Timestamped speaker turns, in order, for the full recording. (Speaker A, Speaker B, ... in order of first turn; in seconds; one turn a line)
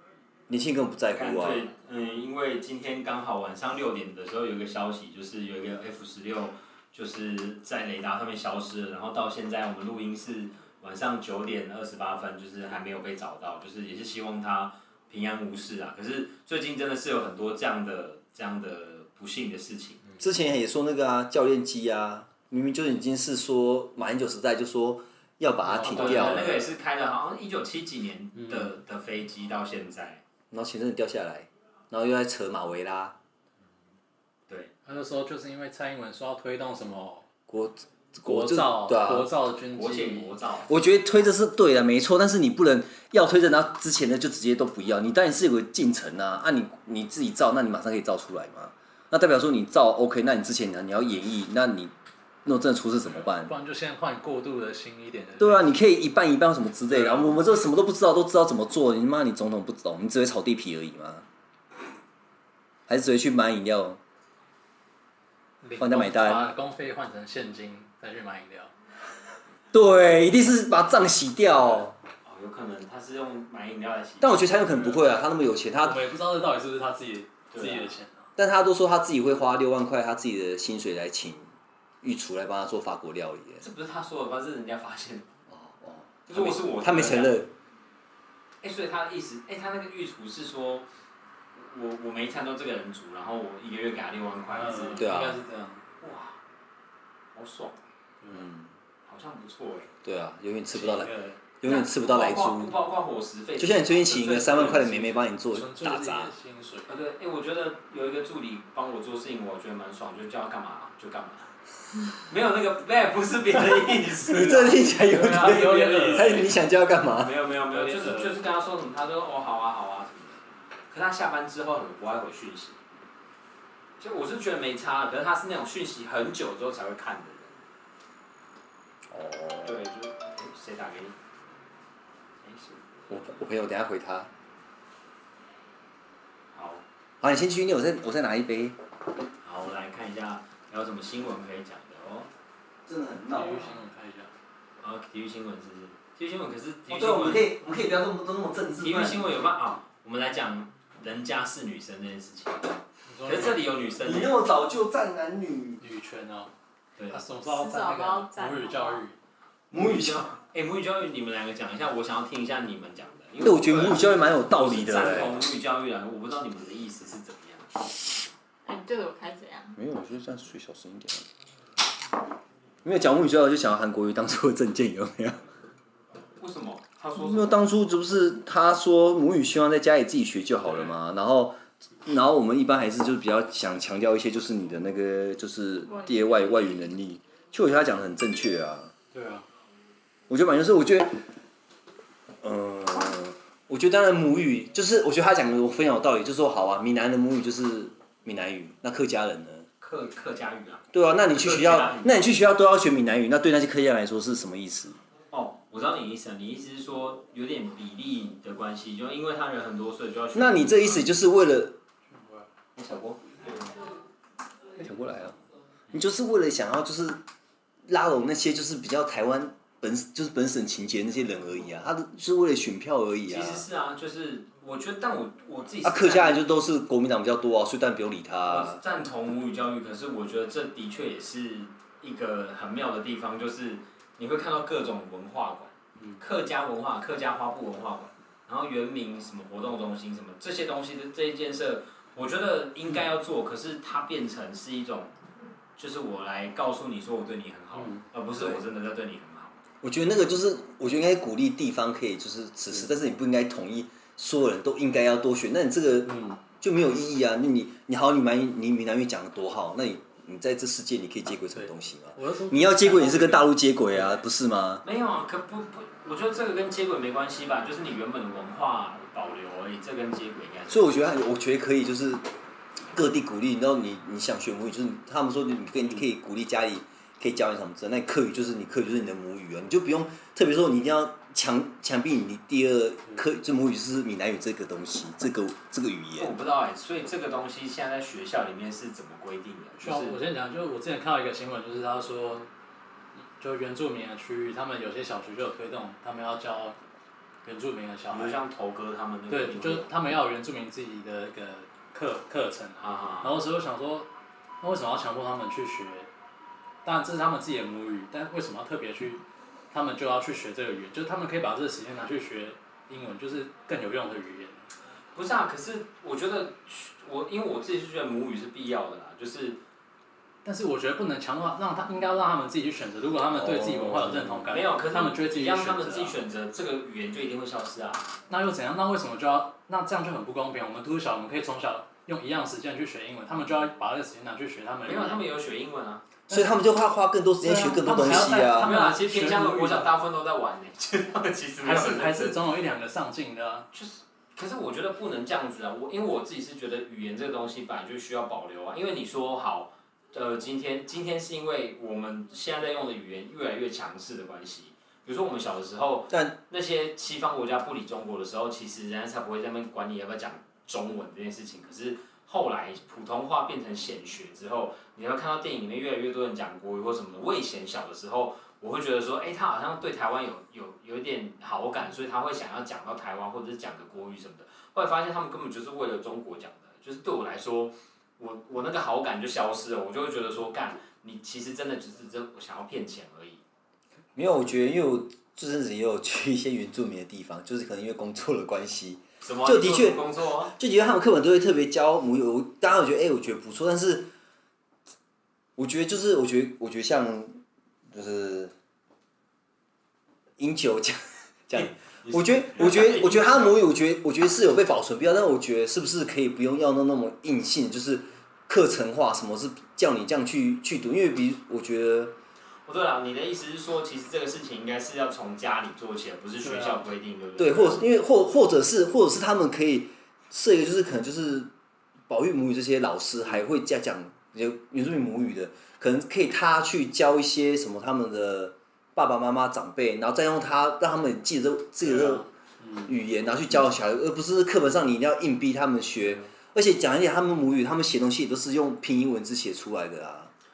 Speaker A: 0.5-1.7
Speaker B: 1.1-20.2
Speaker A: 20.2-26.7
Speaker C: 25.6-26.5
Speaker B: 25.9-30.2
Speaker C: 28.3-28.7
Speaker A: 30.5-33.1
Speaker C: 34.9-37.2
Speaker A: 37.5-39.3
Speaker C: 38.2-40.3
Speaker B: 39.7-40.7
Speaker A: 40.7-51.9
Speaker A: 52.4-53.5
Speaker C: 53.1-55.8
Speaker A: 55.4-61.2
Speaker C: 56.9-57.4
Speaker A: 62.9-64.0
Speaker C: 65.6-68.7
Speaker A: 65.8-66.4
Speaker A: 69.7-71.9
Speaker B: 72.2-74.6
Speaker A: 74.2-76.0
Speaker C: 74.7-75.0
Speaker C: 75.8-78.3
Speaker B: 77.5-77.9
Speaker A: 78.4-81.5
Speaker A: 82.0-83.6
Speaker B: 83.6-85.3
Speaker A: 85.5-87.5
Speaker B: 86.3-87.4
Speaker B: 88.6-90.8
Speaker B: 91.5-95.1
Speaker C: 94.5-95.8
Speaker A: 95.0-95.4
Speaker B: 96.0-96.4
Speaker B: 97.3-97.8
Speaker C: 98.2-98.5
Speaker A: 98.3-98.7
Speaker B: 99.0-99.9
Speaker A: 100.0-102.7
Speaker C: 100.7-101.3
Speaker B: 101.6-105.3
Speaker A: 103.6-106.3
Speaker C: 105.5-106.9
Speaker B: 106.9-111.5
Speaker B: 112.1-116.6
Speaker A: 114.1-117.3
Speaker C: 115.1-116.5
Speaker B: 117.1-122.8
Speaker C: 117.7-118.4
Speaker B: 124.0-127.6
Speaker A: 129.1-129.8
Speaker B: 129.6-131.2
Speaker B: 132.4-133.2
Speaker A: 133.1-134.3
Speaker B: 136.5-136.8
Speaker A: 137.2-138.8
Speaker B: 139.4-142.3
Speaker A: 142.8-143.8
Speaker C: 143.3-144.3
Speaker B: 144.8-147.5
Speaker A: 146.9-149.3
Speaker B: 148.8-154.3
Speaker C: 153.1-153.6
Speaker A: 154.0-155.8
Speaker C: 155.8-156.5
Speaker B: 157.0-157.2
Speaker C: 157.1-159.1
Speaker D: 157.4-159.0
Speaker A: 159.7-160.4
Speaker B: 159.7-167.7
Speaker A: 163.4-165.4
Speaker D: 168.6-169.8
Speaker A: 169.8-171.2
Speaker A: 172.8-175.4
Speaker B: 176.4-177.6
Speaker A: 177.2-188.9
Speaker D: 185.8-186.8
Speaker C: 189.1-189.4
Speaker A: 190.3-191.2
Speaker A: 192.4-199.7
Speaker B: 199.8-202.2
Speaker A: 200.9-205.0
Speaker B: 205.3-211.1
Speaker A: 210.3-211.8
Speaker C: 212.1-212.4
Speaker B: 212.8-213.7
Speaker A: 214.8-215.3
Speaker A: 215.9-217.2
Speaker A: 217.9-223.7
Speaker B: 223.3-226.4
Speaker A: 225.8-228.8
Speaker B: 228.4-245.1
Speaker B: 245.8-249.6
Speaker C: 247.7-248.0
Speaker A: 248.3-248.6
Speaker A: 249.8-264.8
Speaker C: 256.1-256.4
Speaker C: 261.5-264.1
Speaker B: 264.8-271.1
Speaker A: 270.7-272.2
Speaker A: 272.9-286.4
Speaker B: 286.2-290.2
Speaker C: 289.8-292.5
Speaker C: 293.4-296.8
Speaker C: 297.4-298.4
Speaker B: 298.1-300.0
Speaker C: 299.3-304.1
Speaker B: 302.8-303.3
Speaker C: 304.6-306.1
Speaker C: 306.8-309.2
Speaker C: 309.7-314.6
Speaker B: 315.1-319.6
Speaker C: 320.4-326.1
Speaker A: 323.3-324.5
Speaker B: 324.5-328.1
Speaker C: 328.3-335.2
Speaker B: 334.9-336.0
Speaker C: 336.3-336.5
Speaker A: 336.3-338.7
Speaker C: 337.4-339.9
Speaker B: 338.1-342.4
Speaker C: 341.6-343.7
Speaker B: 343.7-383.4
Speaker A: 356.1-356.4
Speaker A: 384.1-394.1
Speaker B: 389.2-390.5
Speaker A: 395.6-397.4
Speaker A: 397.9-398.5
Speaker A: 400.4-412.1
Speaker B: 401.5-403.6
Speaker B: 412.6-417.8
Speaker C: 416.4-416.8
Speaker A: 417.4-421.5
Speaker A: 422.1-432.2
Speaker C: 431.8-432.9
Speaker A: 432.9-440.3